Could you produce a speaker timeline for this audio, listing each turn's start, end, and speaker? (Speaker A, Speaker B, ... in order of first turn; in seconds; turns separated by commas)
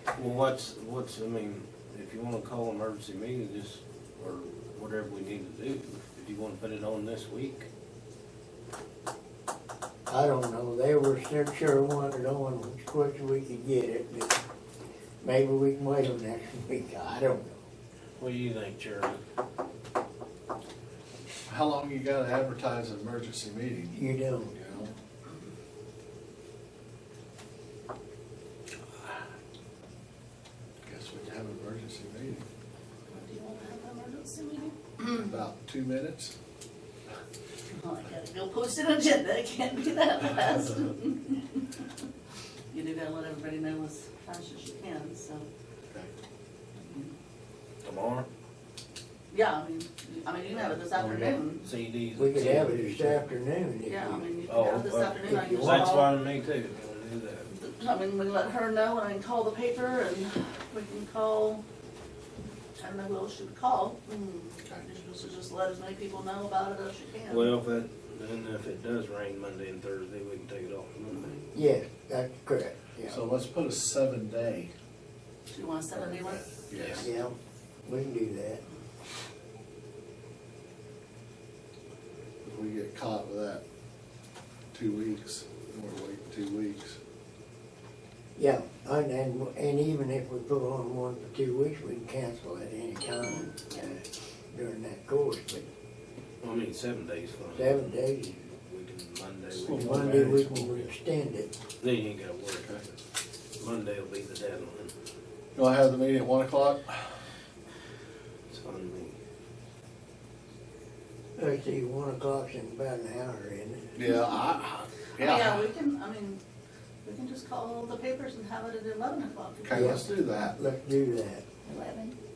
Speaker A: 0.1-7.7, Speaker B: 10.1-14.4, Speaker B: 15.2-17.6, Speaker A: 18.2-19.2, Speaker C: 21.4-24.0, Speaker B: 23.9-24.5, Speaker C: 24.5-24.9, Speaker C: 30.8-32.4, Speaker D: 33.1-35.1, Speaker C: 35.0-36.3, Speaker D: 37.7-41.8, Speaker D: 42.7-45.5, Speaker D: 46.7-47.1, Speaker A: 47.8-48.3, Speaker D: 49.3-51.7, Speaker A: 50.8-53.2, Speaker B: 52.1-54.3, Speaker D: 53.8-56.2, Speaker A: 54.5-57.5, Speaker B: 55.2-56.1, Speaker D: 57.5-61.6, Speaker D: 62.8-67.5, Speaker A: 67.3-71.4, Speaker B: 71.5-73.2, Speaker C: 73.1-74.7, Speaker D: 75.5-76.5, Speaker C: 76.4-77.1, Speaker A: 76.7-77.1, Speaker B: 77.0-77.3, Speaker B: 77.8-78.6, Speaker C: 82.4-83.6, Speaker C: 84.7-87.0, Speaker B: 88.4-95.7, Speaker D: 93.3-94.0, Speaker A: 96.4-100.9, Speaker B: 97.5-98.4, Speaker B: 99.5-101.5, Speaker C: 99.9-100.2, Speaker A: 101.8-102.7, Speaker A: 103.6-104.9, Speaker C: 105.5-107.1, Speaker A: 108.5-109.2, Speaker B: 111.4-114.2, Speaker C: 114.0-115.7, Speaker D: 115.2-116.4, Speaker D: 117.0-119.8, Speaker C: 119.6-120.6, Speaker B: 119.7-121.5, Speaker D: 121.6-122.2